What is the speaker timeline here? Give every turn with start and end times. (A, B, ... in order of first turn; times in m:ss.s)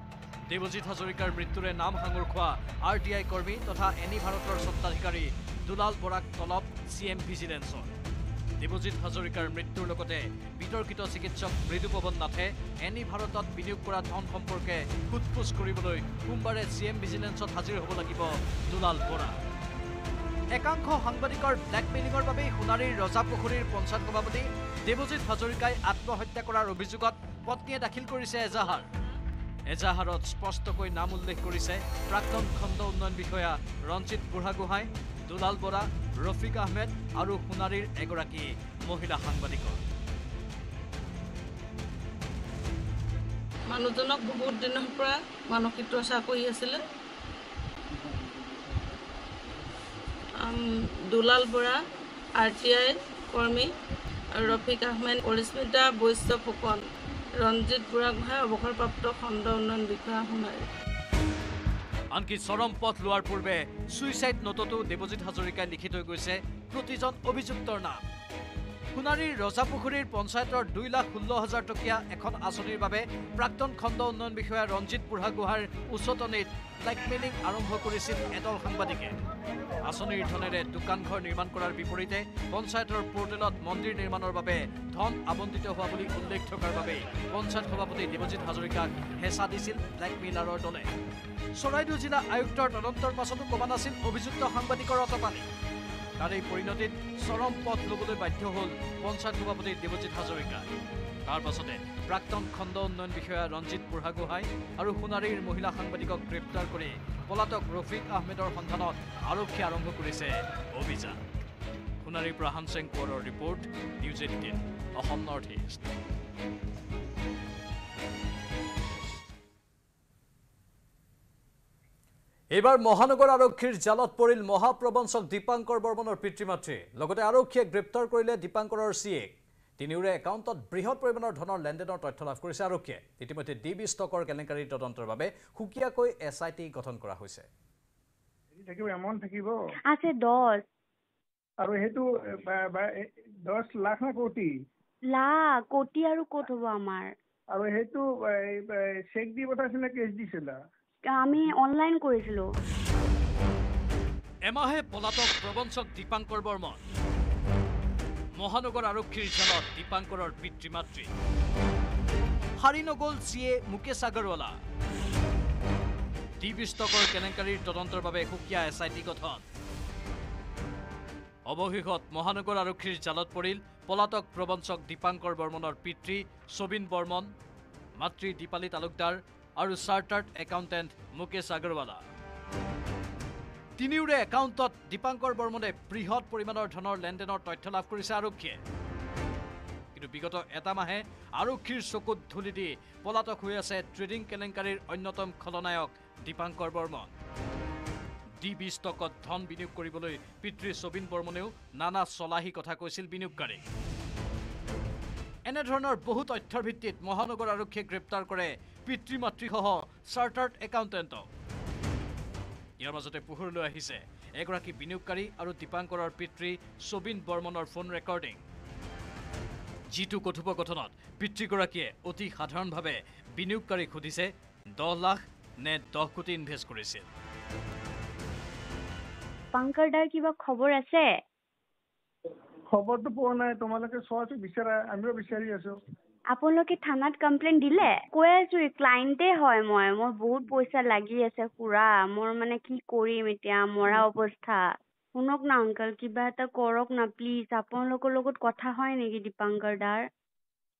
0:00.5-0:07.9 A
0:08.6-0:19.4 A
0:20.5-0:28.9 A
0:29.7-0:39.8 A
0:43.7-0:46.8 B
0:50.4-0:51.8 B
0:52.4-0:53.7 B
0:54.3-0:56.8 B
0:57.4-1:00.6 B
1:02.1-1:08.0 A
1:08.9-1:19.1 A
1:19.8-1:30.9 A
1:31.5-1:35.4 A
1:36.2-1:40.7 A
1:41.2-1:51.2 A
1:52.0-1:55.8 A
2:02.5-2:17.5 A
2:18.6-2:19.5 C
2:19.9-2:20.6 D
2:21.6-2:24.5 C
2:25.1-2:27.1 D
2:27.5-2:30.6 C
2:31.1-2:32.5 D
2:34.5-2:36.8 A
2:38.4-2:41.1 A
2:42.6-2:44.6 A
2:46.4-2:49.4 A
2:51.5-2:57.3 A
2:58.0-3:02.0 A
3:03.8-3:08.6 A
3:09.9-3:17.1 A
3:18.4-3:23.6 A
3:25.5-3:31.2 A
3:32.8-3:38.4 A
3:39.9-3:47.1 A
3:49.5-3:51.1 D
3:52.7-3:55.8 C
3:56.3-4:04.6 D
4:05.2-4:10.0 D